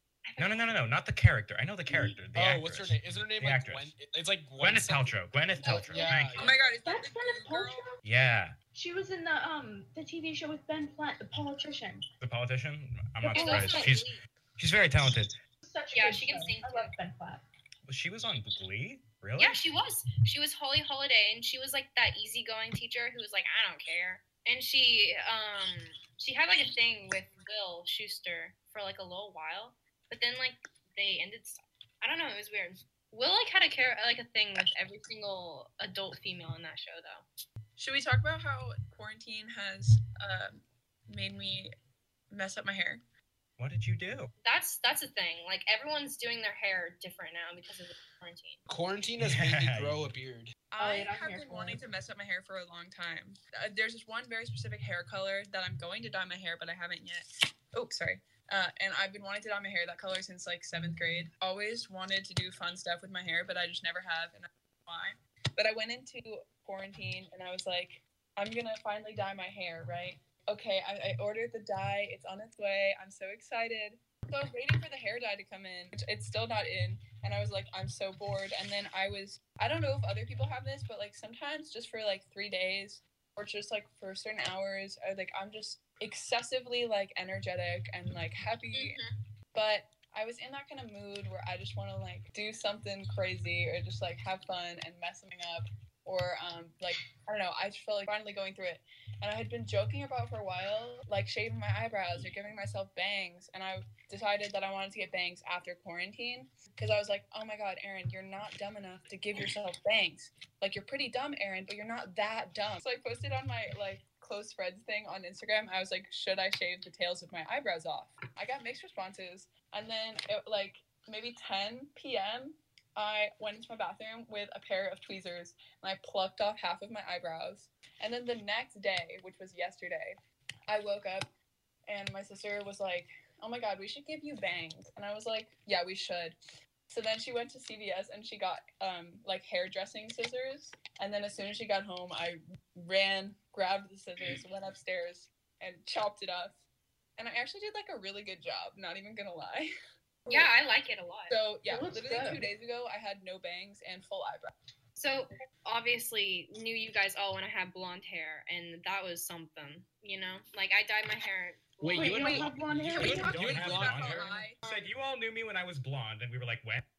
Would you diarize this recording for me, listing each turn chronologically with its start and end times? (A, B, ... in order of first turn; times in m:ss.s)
0:00.2-0:00.8 A
0:00.4-0:03.9 B
0:02.3-0:05.1 C
0:04.6-0:06.4 B
0:05.6-0:06.4 A
0:05.8-0:06.6 C
0:06.4-0:07.8 D
0:06.8-0:08.0 E
0:08.0-0:08.6 B
0:08.7-0:12.0 E
0:12.2-0:15.4 B
0:13.2-0:14.0 E
0:13.3-0:14.2 A
0:15.6-0:17.4 E
0:15.9-0:16.9 A
0:17.9-0:19.6 B
0:19.4-0:37.2 A
0:37.8-0:41.7 D
0:42.3-0:43.0 D
0:43.6-0:44.3 B
0:44.4-0:48.6 A
0:48.7-0:50.5 C
0:49.2-0:50.1 B
0:50.7-1:29.0 D
0:50.8-0:51.8 E
1:28.7-1:29.1 A
1:29.5-2:11.3 D
2:11.9-2:16.4 D
2:16.9-2:26.6 D
2:27.2-2:29.7 D
2:30.3-2:31.3 A
2:31.3-2:34.5 D
2:31.6-2:32.5 E
2:35.0-2:42.5 A
2:41.8-2:44.3 C
2:41.9-2:43.9 E
2:42.8-2:46.8 B
2:43.5-2:44.6 D